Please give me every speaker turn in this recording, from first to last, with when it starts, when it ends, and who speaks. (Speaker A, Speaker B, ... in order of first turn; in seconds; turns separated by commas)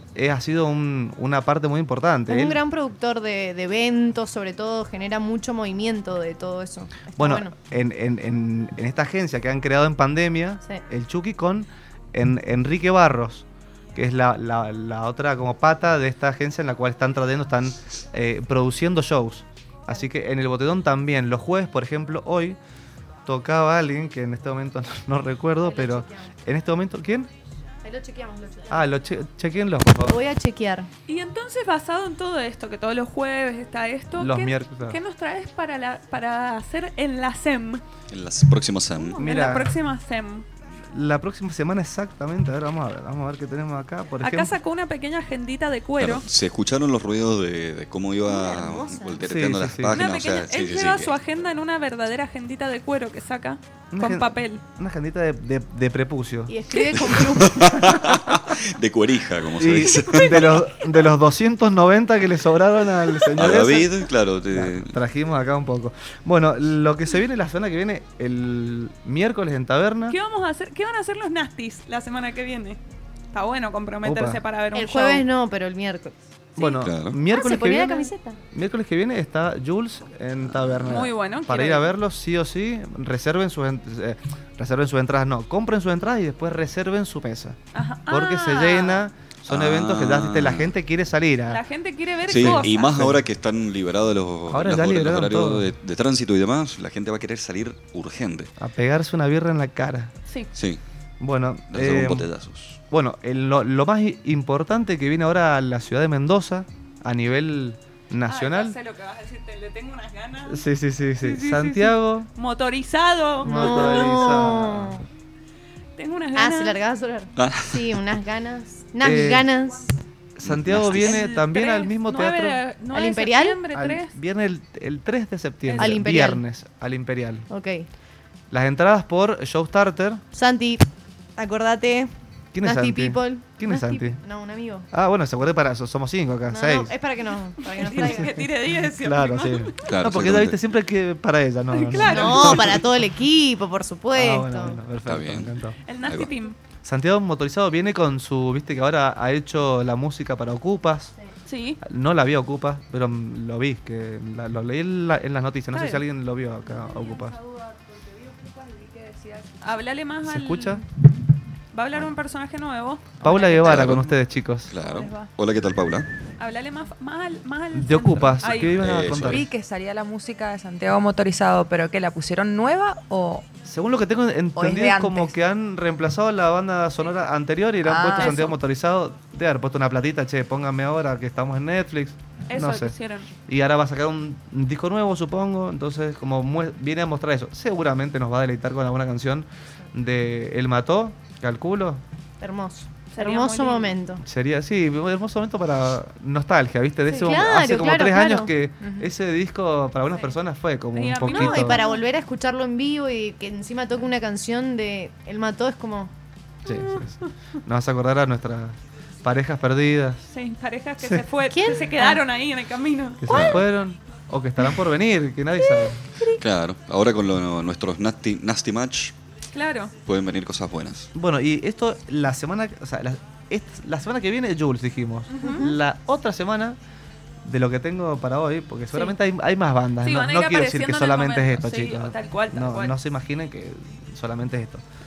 Speaker A: 0.1-2.6, Speaker B: 2.3-7.5, Speaker A: 7.1-22.6, Speaker A: 23.2-27.3, Speaker B: 25.6-26.3, Speaker B: 27.8-28.8, Speaker A: 28.7-30.2, Speaker B: 30.1-30.9, Speaker C: 31.1-37.8, Speaker A: 34.1-35.0, Speaker D: 38.1-39.2, Speaker A: 39.1-39.8, Speaker C: 39.2-40.5, Speaker A: 40.7-44.5, Speaker C: 44.2-46.2, Speaker D: 46.0-51.1, Speaker B: 48.3-49.2, Speaker A: 49.2-50.0, Speaker C: 49.9-54.6, Speaker A: 53.9-56.5, Speaker B: 56.5-58.2, Speaker D: 56.9-60.6, Speaker A: 57.8-58.4, Speaker A: 59.6-70.2, Speaker C: 60.0-60.6, Speaker C: 63.0-63.3, Speaker D: 63.3-65.0, Speaker C: 70.1-72.8, Speaker C: 73.3-75.2, Speaker A: 74.0-74.4, Speaker B: 74.7-78.4, Speaker A: 76.5-91.6, Speaker D: 76.8-77.2, Speaker C: 80.8-81.9, Speaker C: 87.7-89.0, Speaker D: 89.5-90.7, Speaker C: 91.5-92.9, Speaker D: 92.3-98.5, Speaker A: 92.3-93.2, Speaker A: 94.5-95.7, Speaker A: 98.6-100.1, Speaker D: 100.5-100.8, Speaker A: 101.2-102.3, Speaker D: 101.7-102.8, Speaker A: 102.9-108.8, Speaker C: 108.2-110.7, Speaker A: 110.5-112.3, Speaker C: 111.2-114.6, Speaker A: 113.4-115.0, Speaker B: 113.4-115.0, Speaker C: 116.0-116.8, Speaker B: 116.3-119.9, Speaker D: 117.4-118.2, Speaker A: 119.0-119.5, Speaker A: 120.3-122.6, Speaker D: 120.4-121.2, Speaker C: 120.9-124.1, Speaker B: 122.9-123.6, Speaker A: 123.7-127.5, Speaker C: 125.6-126.0, Speaker B: 125.8-126.4, Speaker B: 127.5-127.9, Speaker A: 128.5-130.2, Speaker B: 130.3-134.9, Speaker A: 132.5-134.2, Speaker A: 134.9-136.9, Speaker B: 136.5-138.4, Speaker C: 137.6-139.9, Speaker A: 137.8-142.8, Speaker D: 139.8-140.6, Speaker C: 141.7-142.8, Speaker B: 142.0-144.8, Speaker A: 144.1-145.8, Speaker D: 145.1-145.5, Speaker C: 145.8-146.6, Speaker A: 146.8-151.1, Speaker C: 151.4-151.8, Speaker A: 151.8-157.4, Speaker C: 155.7-156.0, Speaker E: 156.7-159.6, Speaker C: 159.6-160.8, Speaker A: 160.2-160.8, Speaker C: 161.7-164.0, Speaker A: 163.2-164.7, Speaker D: 163.6-164.1, Speaker D: 164.7-166.1, Speaker C: 164.8-165.3, Speaker C: 166.4-168.8, Speaker A: 167.7-169.5, Speaker D: 168.4-169.5, Speaker E: 169.1-173.5, Speaker A: 173.7-192.0, Speaker E: 174.6-175.3, Speaker E: 177.8-178.4, Speaker C: 178.2-178.6, Speaker C: 182.5-183.3, Speaker B: 192.4-194.2, Speaker C: 193.1-194.0, Speaker A: 194.2-201.8, Speaker B: 197.1-199.1, Speaker C: 200.9-202.0, Speaker B: 201.2-206.1, Speaker A: 206.7-210.2, Speaker C: 206.7-207.1, Speaker C: 210.3-213.5, Speaker B: 211.5-212.2, Speaker A: 213.2-216.2, Speaker D: 213.3-213.6, Speaker C: 215.6-216.4, Speaker D: 216.4-219.1, Speaker C: 219.5-219.9, Speaker D: 220.0-221.1, Speaker A: 221.1-226.8, Speaker C: 225.3-225.7, Speaker B: 225.4-225.7, Speaker A: 227.4-234.8, Speaker C: 230.0-232.9